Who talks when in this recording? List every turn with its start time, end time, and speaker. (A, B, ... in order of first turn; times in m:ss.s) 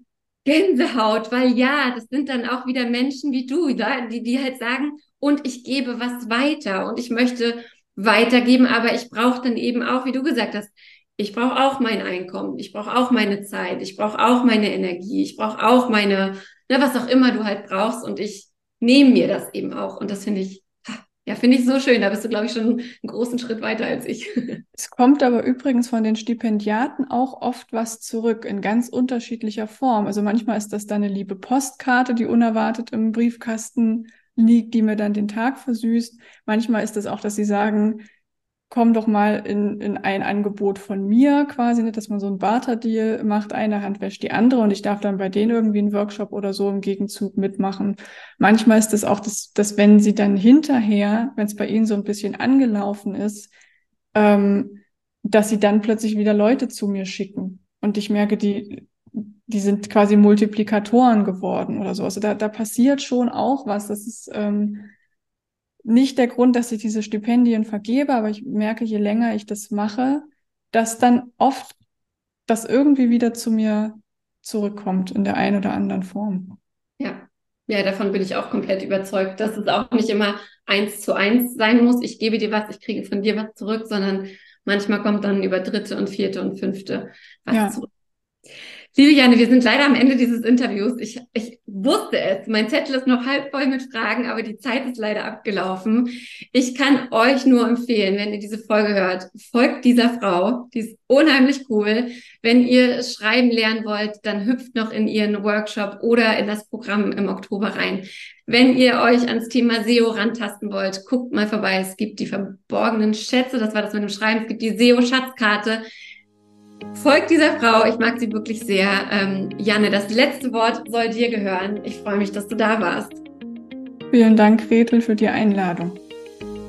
0:00.4-0:24.6 A
0:24.8-0:38.0 B
0:38.7-0:53.5 B
0:54.1-1:04.9 B
1:05.8-1:11.8 B
1:12.5-1:16.6 B
1:17.0-1:27.9 A
1:27.5-1:27.8 B
1:28.9-1:55.8 A
1:56.9-2:03.2 A
2:04.1-2:06.0 B